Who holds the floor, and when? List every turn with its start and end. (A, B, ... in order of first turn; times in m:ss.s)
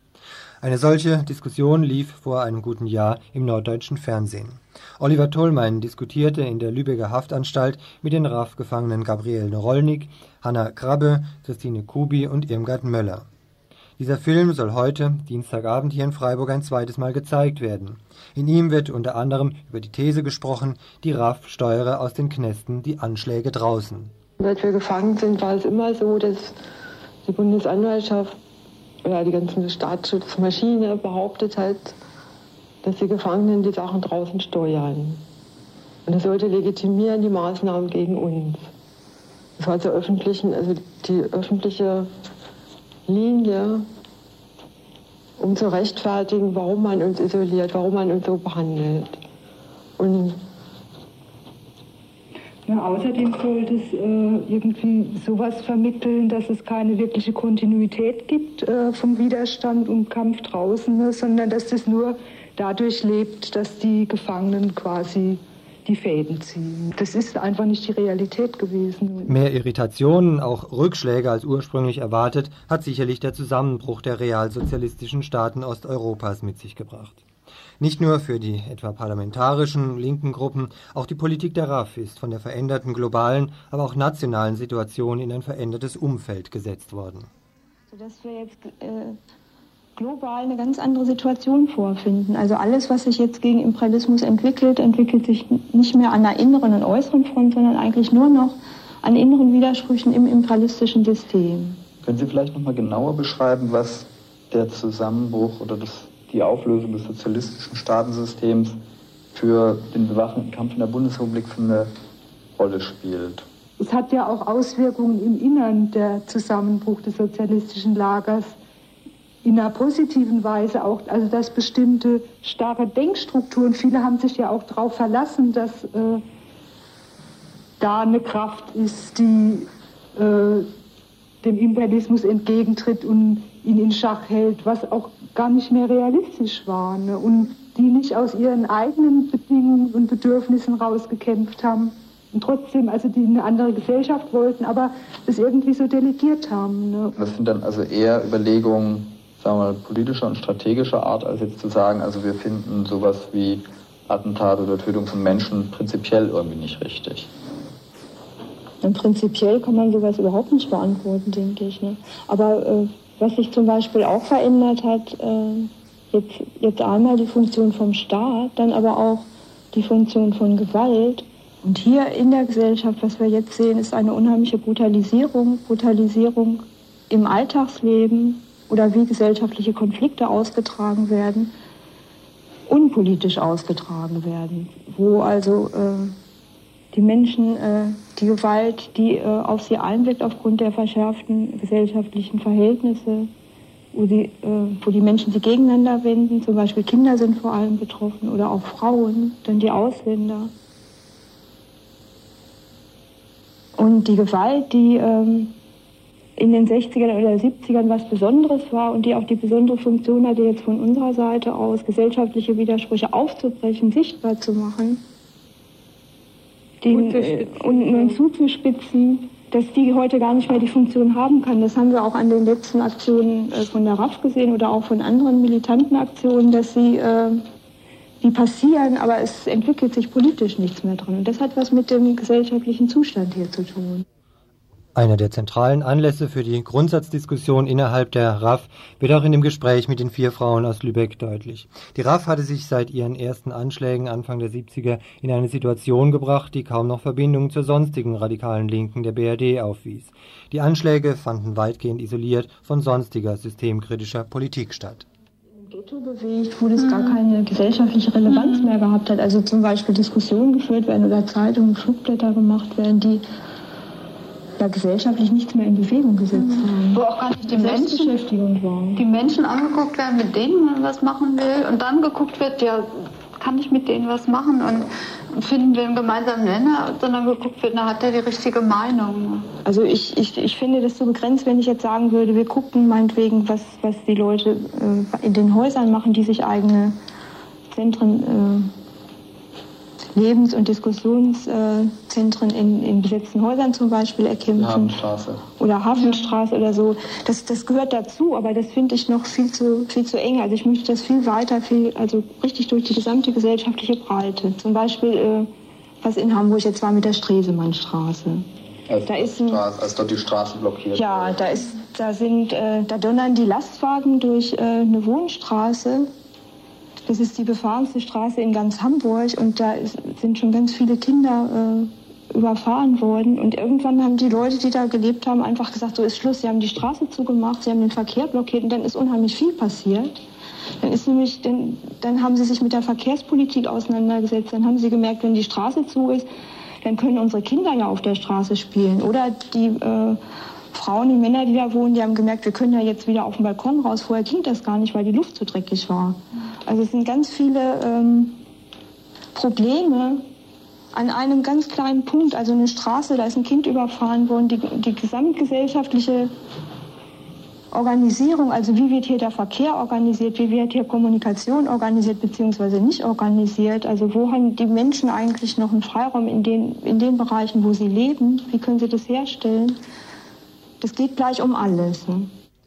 0:00.6-0:13.3 A
0:14.0-0:24.1 A
0:24.4-0:26.6 B
0:27.2-0:28.4 B
0:29.0-0:32.0 B
0:32.8-0:35.2 B
0:36.1-0:38.7 B
0:39.6-0:42.1 B
0:43.1-0:43.9 B
0:45.4-0:49.2 B
0:50.0-0:50.4 B
0:52.7-1:09.4 C
1:09.3-1:17.2 A
1:17.8-1:27.3 A
1:27.9-1:29.2 D
1:30.0-1:41.8 D
1:42.0-1:48.8 E
1:49.3-1:51.9 E
1:52.6-1:53.5 E
1:53.8-1:58.6 C
1:59.4-2:06.2 C
2:07.8-2:10.7 C
2:11.4-2:27.2 C
2:27.2-2:37.3 E
2:38.8-3:01.5 D
3:02.7-3:06.2 D
3:06.9-3:13.3 D
3:13.9-3:20.5 D
3:23.8-3:25.5 D
3:26.4-3:35.0 D
3:36.8-3:47.4 D
3:48.2-3:54.0 D
3:55.0-4:15.1 A
4:15.6-4:23.2 D
4:16.8-4:17.2 F
4:18.3-4:18.7 F
4:24.6-4:29.0 D
4:26.3-4:28.2 F
4:29.0-4:39.5 F
4:39.6-4:47.0 D
4:47.7-4:48.7 D
4:50.1-4:55.0 D
4:54.6-4:55.5 E
4:55.6-5:05.5 D
5:06.0-5:08.5 D
5:08.9-5:11.5 E
5:09.0-5:09.6 D
5:11.0-5:16.1 D
5:17.1-5:30.2 D
5:30.8-5:36.3 D
5:36.8-5:40.2 D
5:40.7-5:48.4 D
5:49.4-5:50.2 D
5:50.9-5:56.3 D
5:57.7-6:09.8 D
6:10.8-6:12.3 D